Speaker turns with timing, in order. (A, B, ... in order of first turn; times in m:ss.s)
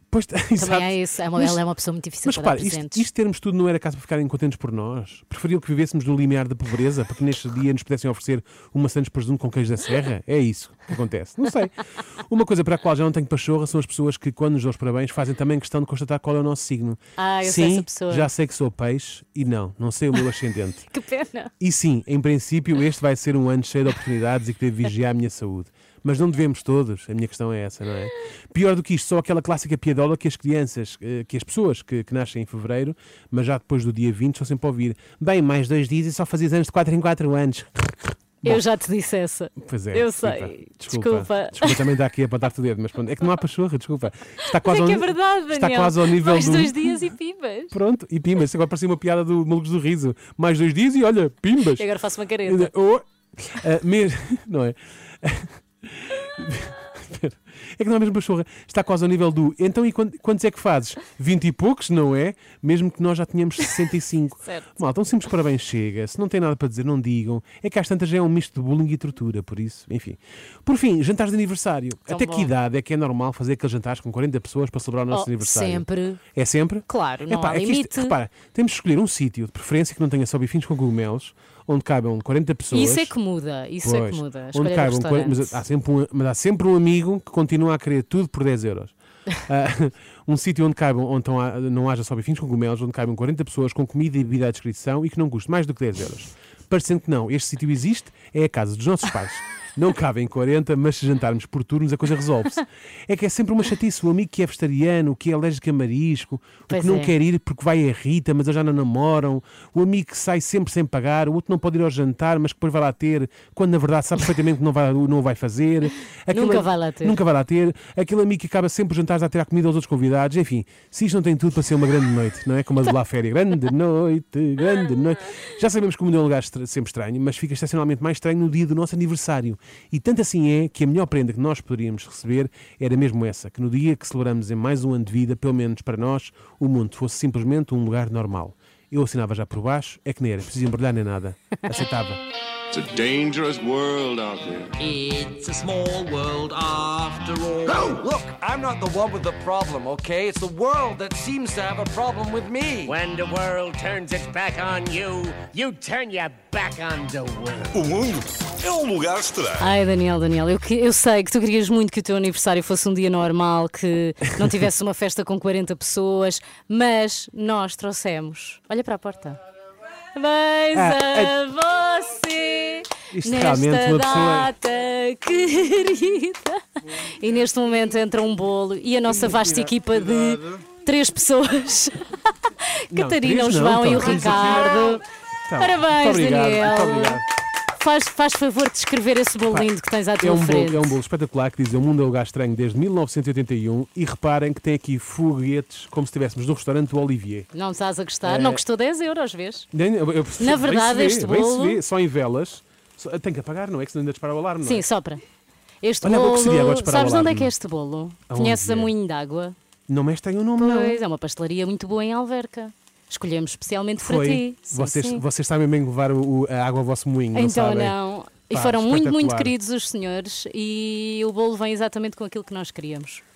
0:00.1-0:01.6 A
0:00.6-0:03.0 B
0:02.2-0:20.9 A
0:17.2-0:18.3 B
0:20.9-0:21.5 B
0:21.6-0:38.6 A
0:38.4-0:41.8 B
0:39.6-0:47.1 A
0:44.5-0:47.8 B
0:47.7-0:51.9 A
0:51.7-0:52.7 B
0:52.4-1:23.1 A
1:12.1-1:12.5 B
1:15.1-1:16.2 B
1:16.9-1:18.2 B
1:22.7-1:25.6 B
1:23.8-2:22.2 A
1:46.7-1:47.1 B
1:56.3-1:57.2 B
2:22.7-2:24.8 C
2:24.8-2:27.9 D
2:27.7-2:33.0 E
2:32.8-2:37.8 F
2:37.7-2:39.7 G
2:39.6-2:49.4 B
2:50.1-3:05.0 B
2:50.7-2:51.4 A
2:53.1-2:54.5 A
2:59.1-2:59.7 A
3:02.9-3:07.2 A
3:05.6-3:07.2 B
3:07.8-3:10.9 B
3:09.5-3:17.5 A
3:17.5-3:19.7 B
3:18.2-3:18.6 A
3:19.7-3:24.8 A
3:20.4-3:21.8 B
3:24.6-3:25.2 B
3:25.8-3:29.6 B
3:26.0-3:27.5 A
3:28.3-3:28.9 A
3:29.9-3:31.0 A
3:30.6-3:35.2 B
3:34.0-3:38.0 A
3:37.3-3:43.2 B
3:38.5-3:39.6 A